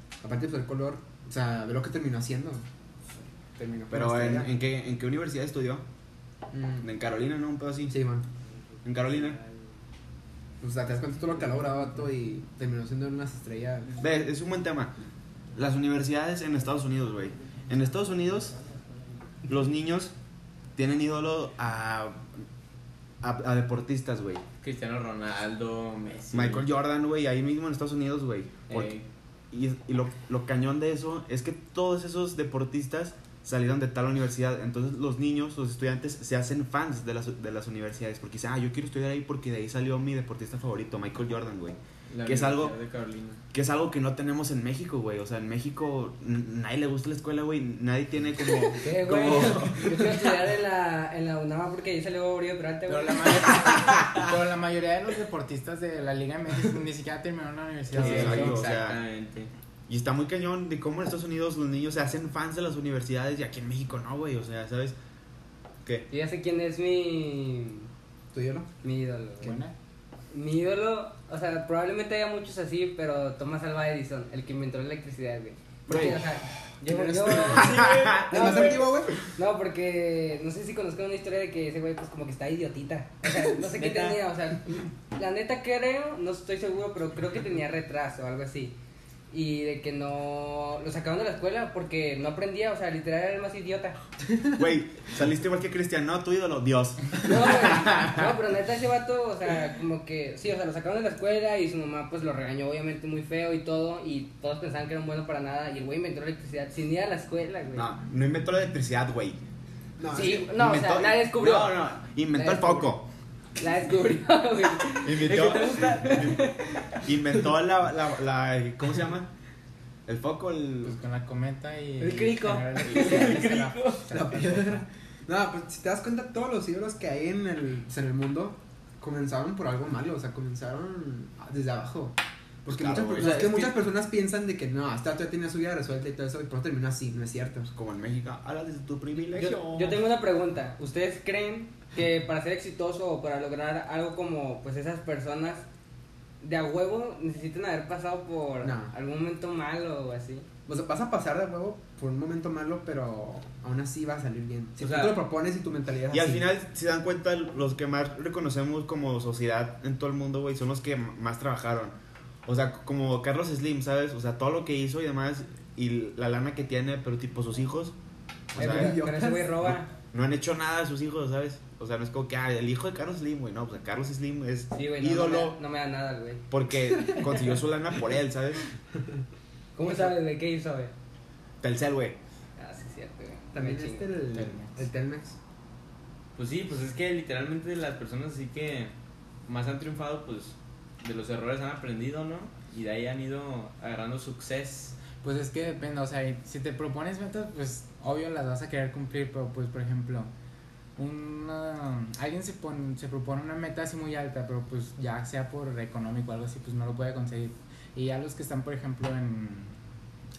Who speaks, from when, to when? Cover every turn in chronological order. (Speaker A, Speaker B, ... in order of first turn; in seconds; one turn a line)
Speaker A: 0.2-2.6
Speaker A: 3.6-4.5
Speaker B: 3.9-5.8
Speaker A: 6.5-6.9
Speaker B: 6.8-8.0
Speaker A: 7.9-8.2
Speaker B: 8.8-9.4
Speaker A: 10.6-14.0
Speaker B: 14.0-14.9
Speaker B: 15.6-18.6
Speaker B: 19.5-20.1
Speaker B: 20.8-22.3
Speaker B: 23.2-24.4
Speaker C: 24.6-26.7
Speaker B: 26.3-28.9
Speaker C: 28.7-29.1
Speaker B: 29.5-42.8
Speaker C: 42.1-43.4
Speaker B: 43.5-50.1
Speaker D: 48.7-53.7
Speaker E: 52.9-58.6
Speaker B: 57.9-59.0
Speaker C: 57.9-59.5
Speaker B: 59.9-65.0
Speaker D: 66.1-67.9
Speaker A: 68.3-68.7
Speaker D: 68.8-69.6
Speaker E: 69.4-69.7
Speaker D: 70.3-88.8
Speaker B: 75.9-76.2
Speaker A: 76.9-79.2
Speaker C: 77.3-78.9
Speaker B: 77.5-78.4
Speaker C: 83.7-84.2
Speaker D: 89.3-94.0
Speaker B: 94.6-98.3
Speaker D: 97.2-107.9
Speaker B: 107.8-109.4
Speaker A: 110.0-110.5
Speaker D: 110.1-112.9
Speaker B: 110.2-113.1
Speaker D: 113.6-116.9
Speaker B: 114.9-119.3
Speaker C: 115.3-116.2
Speaker B: 120.1-121.0
Speaker E: 120.8-124.8
Speaker D: 122.0-123.6
Speaker C: 122.9-124.1
Speaker A: 124.1-137.7
Speaker B: 132.7-133.8
Speaker B: 137.7-140.0
Speaker D: 139.3-145.7
Speaker D: 146.4-150.5
Speaker A: 148.6-148.9
Speaker A: 150.7-156.4
Speaker C: 154.8-155.2
Speaker B: 156.1-167.9
Speaker B: 168.5-169.0
Speaker D: 168.6-169.9
Speaker A: 168.6-169.5
Speaker B: 169.6-175.6
Speaker D: 174.7-176.4
Speaker B: 176.5-178.7
Speaker D: 179.8-180.9
Speaker B: 181.6-182.2
Speaker D: 182.6-184.1
Speaker A: 183.5-185.4
Speaker E: 184.3-184.7
Speaker C: 186.4-188.9
Speaker C: 189.5-195.0
Speaker E: 195.2-200.3
Speaker E: 201.0-209.8